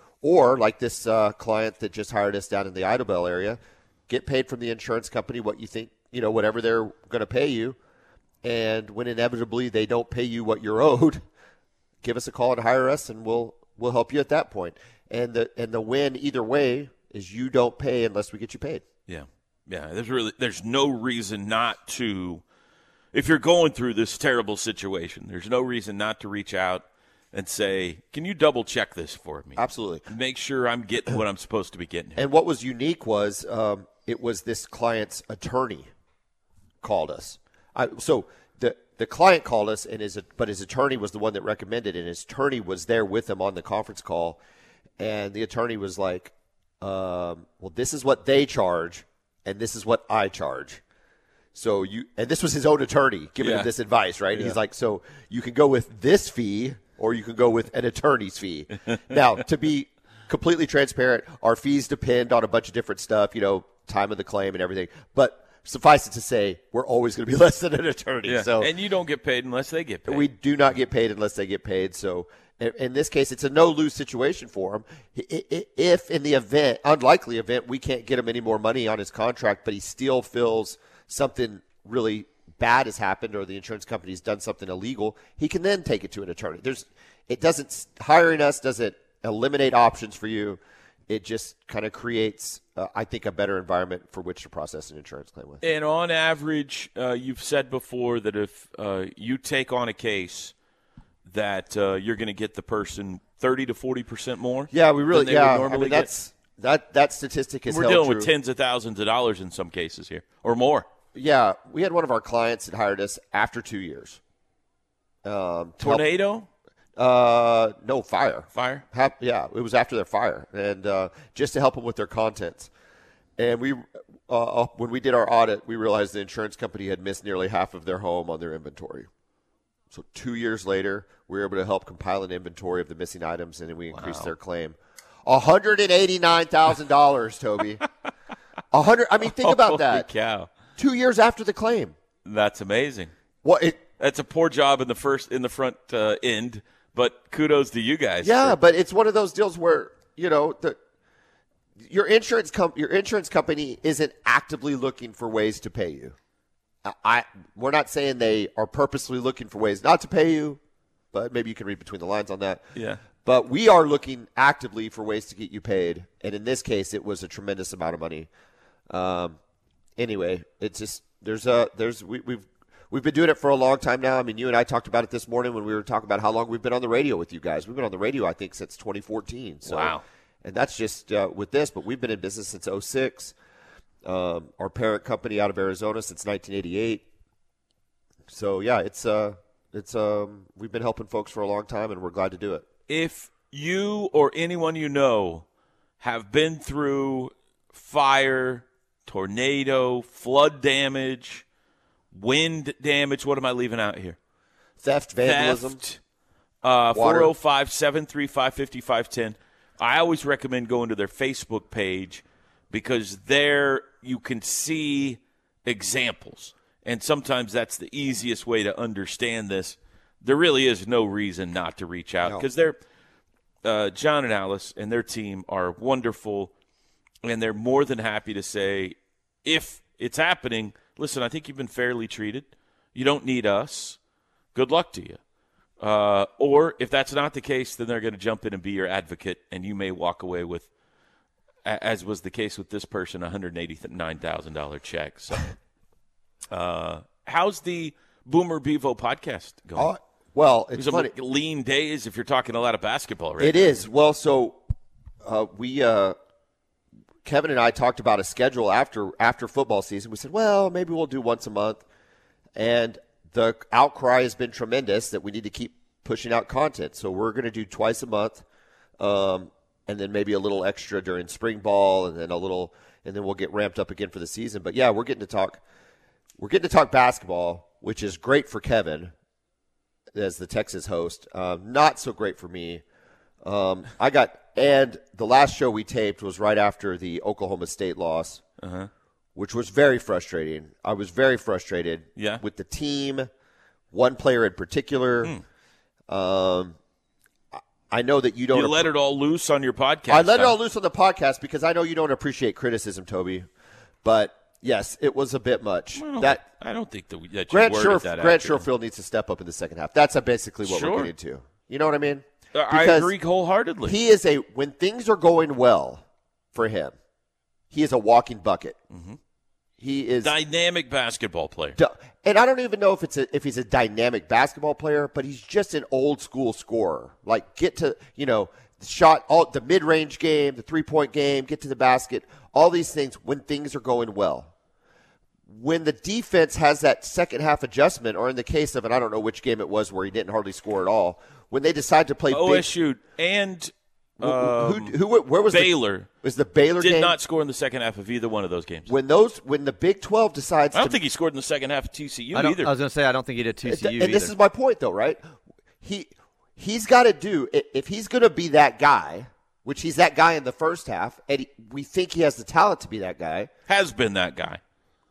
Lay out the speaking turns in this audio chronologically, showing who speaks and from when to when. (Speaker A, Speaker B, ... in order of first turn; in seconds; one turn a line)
Speaker A: 0.2-7.8
Speaker A: 8.4-11.2
Speaker A: 12.0-18.9
Speaker B: 19.1-22.4
Speaker B: 23.1-32.2
Speaker A: 29.6-30.1
Speaker A: 32.1-35.9
Speaker A: 36.8-44.4
Speaker A: 45.0-50.8
Speaker A: 51.5-68.7
Speaker B: 53.4-53.7
Speaker B: 68.3-70.2
Speaker A: 70.0-95.6
Speaker B: 95.6-100.5
Speaker B: 101.3-106.1
Speaker A: 104.7-108.3
Speaker B: 107.7-110.8
Speaker A: 111.1-114.2
Speaker A: 115.2-116.0
Speaker B: 115.8-116.5
Speaker A: 117.0-122.7
Speaker B: 118.5-118.8
Speaker A: 123.4-129.1
Speaker A: 129.9-137.8
Speaker B: 133.9-134.3
Speaker A: 138.7-140.1
Speaker B: 139.4-140.5
Speaker A: 140.8-141.9
Speaker B: 142.2-143.1
Speaker A: 143.4-143.8
Speaker B: 144.0-148.6
Speaker A: 148.2-150.8
Speaker A: 151.8-156.1
Speaker A: 156.8-160.6
Speaker A: 161.1-162.6
Speaker B: 162.8-163.0
Speaker A: 163.2-168.3
Speaker A: 168.9-169.4
Speaker A: 170.0-183.3
Speaker B: 179.6-180.0
Speaker A: 184.0-187.1
Speaker A: 188.3-192.7
Speaker B: 192.9-195.4
Speaker B: 196.0-201.4
Speaker B: 202.1-204.2
Speaker A: 204.8-205.8
Speaker B: 205.2-206.0
Speaker B: 206.6-222.8
Speaker A: 206.9-207.3
Speaker B: 223.6-226.5
Speaker B: 227.2-234.0
Speaker B: 234.5-235.2
Speaker B: 235.8-240.7
Speaker B: 241.6-245.5
Speaker B: 246.5-249.9
Speaker A: 249.8-251.1
Speaker B: 250.8-253.7
Speaker A: 253.4-254.6
Speaker A: 255.2-256.1
Speaker A: 257.2-261.8
Speaker A: 262.6-268.4
Speaker A: 269.0-275.6
Speaker A: 276.4-279.1
Speaker A: 280.1-282.8
Speaker A: 283.4-288.4
Speaker B: 288.6-288.9
Speaker A: 289.3-293.3
Speaker B: 292.2-292.4
Speaker A: 293.9-295.3
Speaker A: 296.1-296.8
Speaker A: 297.9-298.9
Speaker B: 298.5-300.5
Speaker A: 300.1-303.5
Speaker A: 304.0-306.4
Speaker B: 305.9-308.6
Speaker A: 307.5-313.1
Speaker B: 310.6-311.1
Speaker B: 312.5-313.9
Speaker A: 313.8-316.0
Speaker A: 316.5-316.9
Speaker A: 317.7-318.8
Speaker B: 318.9-319.2
Speaker A: 319.8-320.3
Speaker B: 320.2-321.8
Speaker A: 321.8-334.5
Speaker A: 335.5-342.7
Speaker B: 342.3-344.9
Speaker A: 344.2-347.1
Speaker B: 345.5-346.1
Speaker B: 346.8-348.9
Speaker A: 348.9-351.0
Speaker B: 350.7-352.7
Speaker C: 352.3-354.3
Speaker A: 353.6-355.2
Speaker A: 355.8-363.5
Speaker B: 363.7-364.6